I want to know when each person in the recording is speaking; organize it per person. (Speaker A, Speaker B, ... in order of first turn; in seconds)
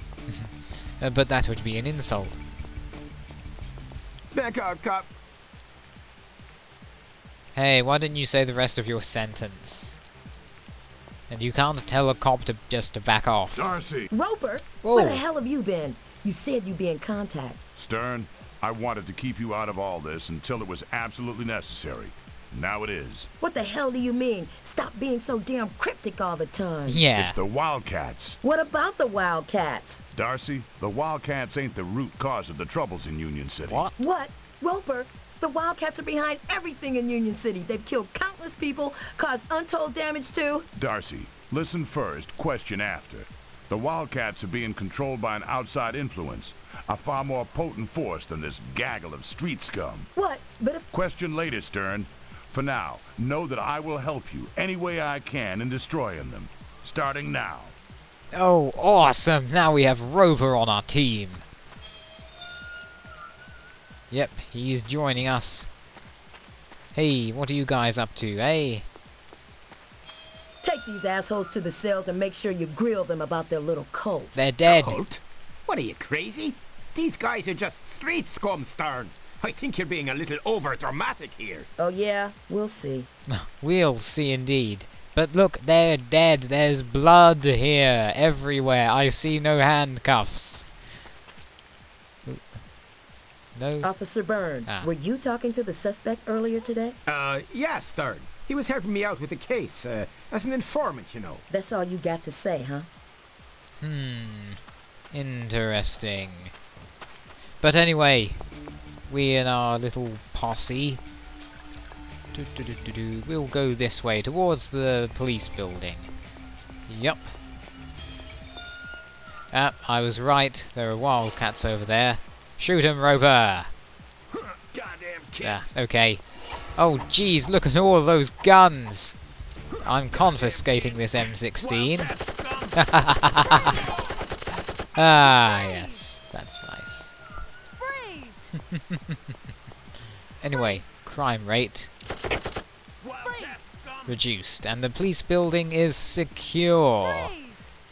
Speaker A: 0.3-2.4, 7.5-10.0, 11.3-13.8, 14.8-15.2, 26.9-27.4, 33.7-34.1, 58.3-61.4, 64.1-65.7, 66.9-68.9, 74.3-75.0, 83.3-90.7, 92.3-92.5, 93.5-93.9, 103.8-104.6, 105.1-106.5, 107.6-108.4, 109.1-111.0, 112.3-116.1, 116.9-117.3, 119.5-123.7, 125.4-126.2, 126.8-129.2, 129.8-132.1, 132.8-133.9, 134.9-137.2, 138.5-139.2, 140.4-141.9, 144.1-147.3
Speaker B: 4.3-5.1, 74.7-81.7, 97.1-101.4, 124.3-125.7, 129.7-132.8, 133.5-133.9, 143.0-144.2
Speaker C: 13.6-14.1, 17.8-23.3, 27.2-28.4, 30.1-33.9, 40.8-50.1, 50.9-57.8
Speaker D: 14.1-17.6, 23.4-27.0, 28.4-30.0, 34.0-40.7, 50.1-50.9, 70.6-74.4, 81.8-83.1, 93.8-97.0, 101.5-102.9